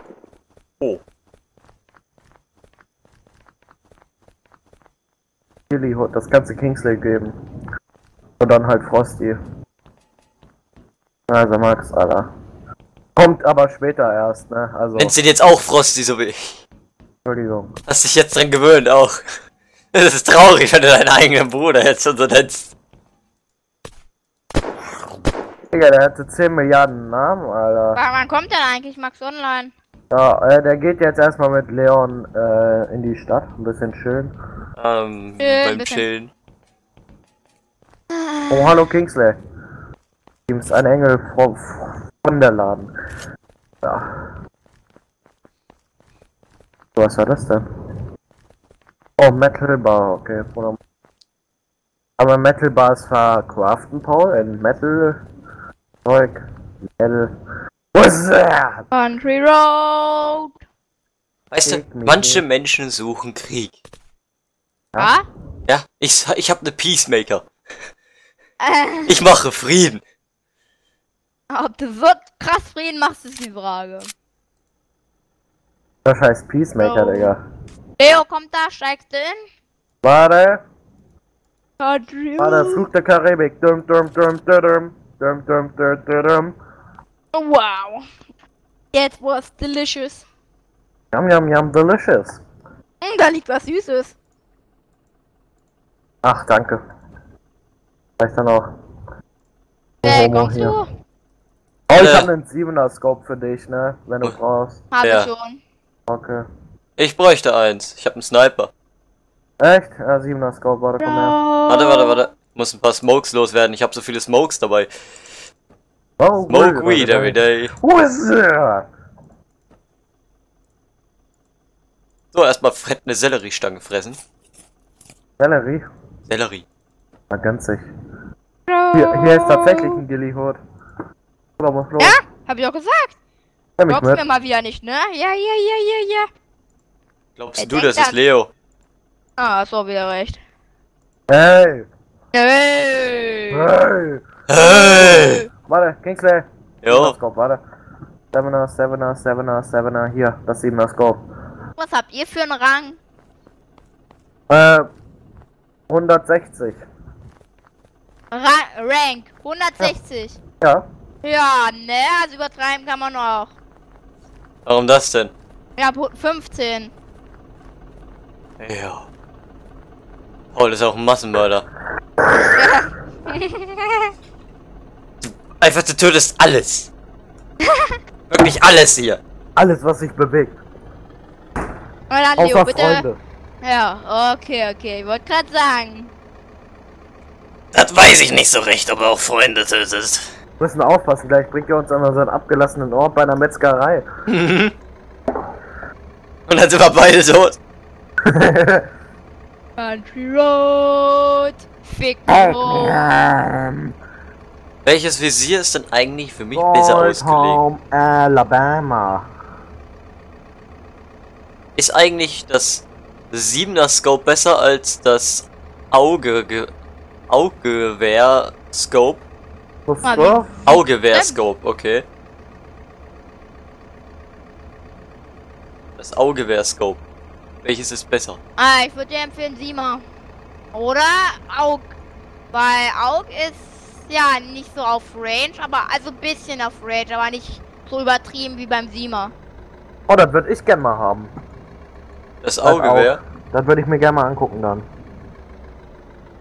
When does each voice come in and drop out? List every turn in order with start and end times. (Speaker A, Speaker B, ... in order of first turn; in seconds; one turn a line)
Speaker A: 5.7-7.3
Speaker A: 8.4-9.4
Speaker A: 11.3-12.3
Speaker A: 13.2-15.1
Speaker B: 15.0-16.6
Speaker A: 17.2-17.7
Speaker B: 17.9-19.2
Speaker B: 19.9-22.7
Speaker A: 25.7-28.0
Speaker C: 28.0-29.7
Speaker A: 30.1-34.3
Speaker B: 34.8-36.3
Speaker C: 35.4-36.1
Speaker C: 38.1-38.8
Speaker A: 38.5-39.4
Speaker A: 40.5-42.9
Speaker A: 43.8-44.3
Speaker A: 47.0-47.6
Speaker A: 49.2-50.8
Speaker A: 52.2-55.2
Speaker A: 56.0-56.4
Speaker A: 57.0-57.3
Speaker A: 58.0-58.9
Speaker C: 58.9-60.5
Speaker B: 61.5-63.8
Speaker A: 61.7-62.4
Speaker C: 65.0-65.3
Speaker B: 65.7-67.5
Speaker C: 68.6-69.1
Speaker B: 69.1-70.0
Speaker C: 71.5-74.1
Speaker A: 76.0-77.4
Speaker C: 76.8-77.3
Speaker C: 78.0-79.4
Speaker A: 80.0-80.7
Speaker C: 81.8-82.9
Speaker A: 82.4-86.6
Speaker C: 87.3-88.1
Speaker C: 88.9-90.2
Speaker A: 91.1-92.4
Speaker C: 93.0-94.2
Speaker A: 96.2-96.8
Speaker A: 98.2-98.7
Speaker A: 100.0-100.8
Speaker C: 100.0-100.9
Speaker A: 101.9-104.8
Speaker B: 101.9-102.3
Speaker C: 104.9-105.6
Speaker B: 105.0-105.3
Speaker A: 106.1-106.5
Speaker B: 107.0-108.7
Speaker A: 109.6-111.4
Speaker C: 111.0-112.2
Speaker B: 111.7-114.9
Speaker A: 116.2-118.9
Speaker B: 116.5-117.8
Speaker B: 122.3-124.2
Speaker A: 125.4-125.9
Speaker B: 126.3-126.7
Speaker A: 127.3-127.9
Speaker C: 128.7-130.0
Speaker A: 128.9-130.6
Speaker A: 131.6-132.2
Speaker C: 132.0-133.2
Speaker A: 133.8-134.2
Speaker C: 133.9-136.3
Speaker B: 137.4-138.5
Speaker C: 137.6-138.2
Speaker C: 139.4-140.4
Speaker A: 141.3-141.9
Speaker C: 142.3-143.7
Speaker A: 143.5-144.2
Speaker B: 144.5-145.4
Speaker C: 144.6-145.5
Speaker A: 145.0-147.6
Speaker B: 146.8-147.2
Speaker A: 148.3-151.2
Speaker C: 151.8-153.0
Speaker A: 154.5-154.9
Speaker A: 155.9-156.8
Speaker C: 158.3-160.4
Speaker A: 160.6-160.8
Speaker C: 161.2-163.5
Speaker B: 164.7-165.3
Speaker C: 165.8-166.9
Speaker B: 168.6-169.1
Speaker B: 170.5-171.7
Speaker C: 172.5-174.1
Speaker B: 175.2-176.9
Speaker C: 177.6-178.0
Speaker B: 178.3-179.2
Speaker A: 179.6-180.6
Speaker C: 182.1-183.1
Speaker A: 182.4-183.2
Speaker C: 183.6-186.1
Speaker B: 187.7-190.3
Speaker A: 190.6-194.1
Speaker B: 194.3-194.8
Speaker B: 196.5-197.6
Speaker A: 198.2-198.9
Speaker C: 199.8-203.1
Speaker A: 202.3-203.9
Speaker B: 204.8-207.6
Speaker A: 206.5-209.3
Speaker B: 211.8-216.7
Speaker B: 217.3-219.2
Speaker A: 219.9-220.5
Speaker C: 220.0-221.4
Speaker B: 220.7-222.1
Speaker B: 226.0-227.0
Speaker B: 227.6-228.4
Speaker C: 228.6-230.0
Speaker C: 230.7-231.9
Speaker C: 232.5-239.3
Speaker A: 240.1-241.3
Speaker B: 242.4-243.2
Speaker A: 242.6-244.8